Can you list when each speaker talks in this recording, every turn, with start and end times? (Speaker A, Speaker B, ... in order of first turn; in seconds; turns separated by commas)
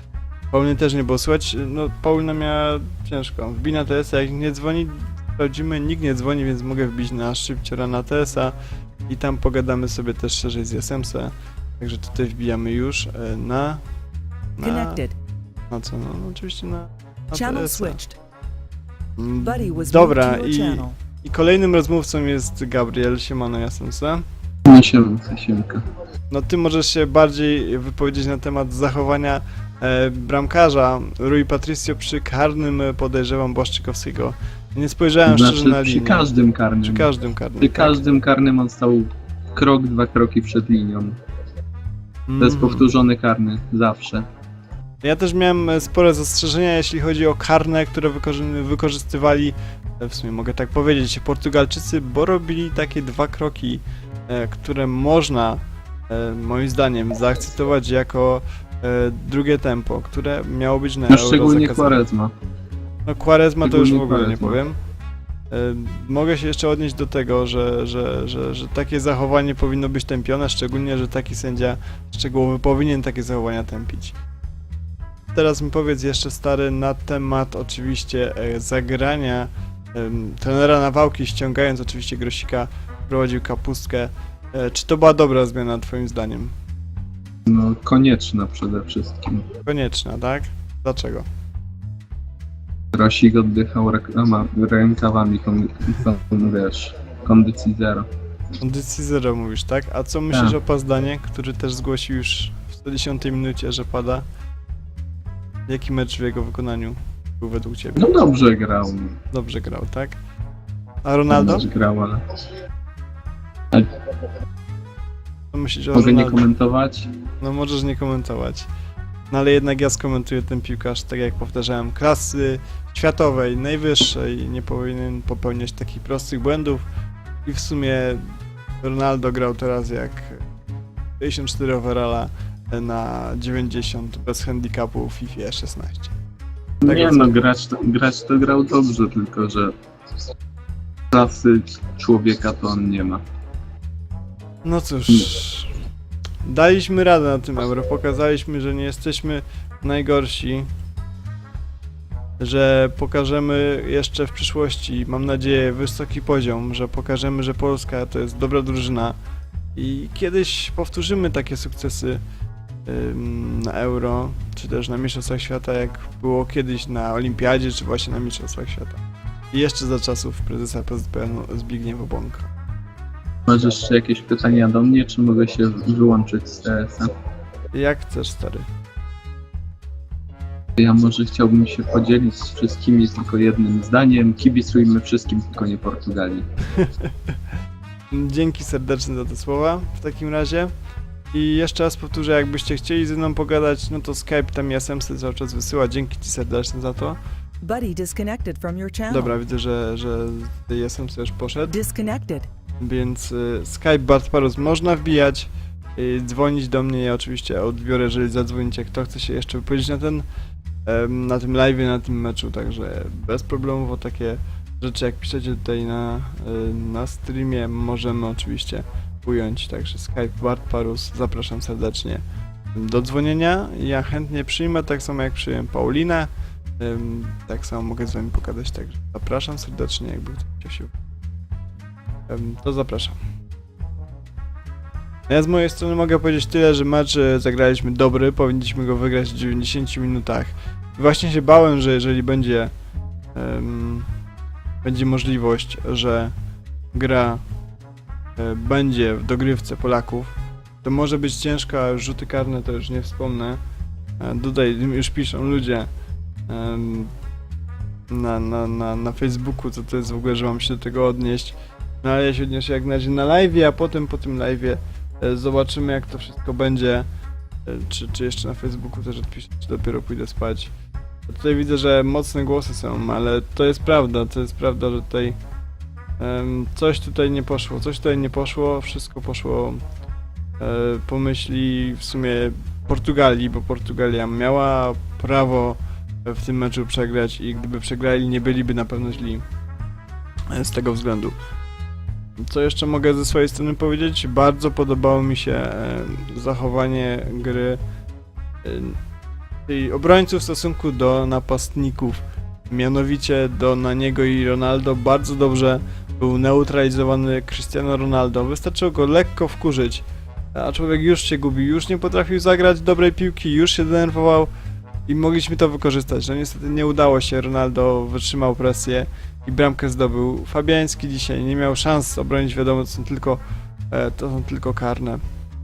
Speaker A: 0.5-8.5, Speaker A: 9.1-13.8, Speaker A: 14.6-15.0, Speaker B: 14.6-15.1, Speaker A: 15.7-18.0, Speaker B: 17.3-18.2, Speaker A: 19.2-24.2, Speaker B: 19.4-21.0, Speaker C: 24.7-25.8, Speaker A: 26.3-38.0, Speaker C: 35.2-37.1, Speaker C: 37.6-41.1, Speaker A: 42.3-42.9, Speaker C: 42.4-44.2, Speaker A: 45.0-62.0, Speaker C: 61.1-62.3, Speaker A: 63.0-64.8, Speaker C: 63.6-64.6, Speaker A: 65.5-74.1, Speaker A: 75.3-86.5, Speaker C: 87.5-89.5, Speaker A: 89.7-91.2, Speaker C: 92.9-98.0, Speaker A: 98.6-104.2, Speaker C: 100.3-100.6, Speaker A: 105.7-108.1, Speaker C: 108.0-109.2, Speaker A: 109.3-110.2, Speaker A: 111.0-111.7, Speaker C: 111.3-112.2, Speaker A: 115.5-116.4, Speaker C: 115.9-117.0, Speaker A: 117.4-118.7, Speaker A: 119.3-126.8, Speaker A: 127.4-128.2, Speaker A: 128.8-130.4, Speaker A: 131.2-136.1, Speaker C: 136.8-139.7, Speaker A: 136.8-137.3, Speaker C: 141.1-143.2, Speaker A: 144.6-145.7, Speaker A: 146.4-150.7, Speaker A: 152.4-159.2, Speaker A: 159.8-162.2, Speaker A: 162.8-172.5, Speaker C: 173.5-177.1, Speaker A: 177.7-178.7, Speaker C: 180.8-186.4, Speaker A: 188.1-190.7, Speaker A: 191.3-197.2, Speaker B: 197.6-199.3, Speaker A: 199.1-201.7, Speaker B: 201.6-202.5, Speaker A: 202.8-210.2, Speaker A: 210.8-222.2, Speaker A: 222.7-230.9, Speaker A: 232.3-233.2, Speaker A: 235.3-242.7, Speaker A: 243.3-244.1, Speaker A: 244.8-246.3, Speaker A: 246.9-247.4, Speaker A: 248.4-253.6, Speaker A: 254.2-255.9, Speaker A: 256.5-257.1, Speaker A: 258.1-267.1, Speaker A: 267.6-270.7, Speaker A: 271.3-275.4, Speaker A: 276.2-279.8, Speaker A: 280.6-289.4, Speaker A: 290.5-291.4, Speaker A: 292.4-297.8, Speaker A: 298.6-299.0, Speaker A: 299.7-314.5, Speaker A: 315.1-325.2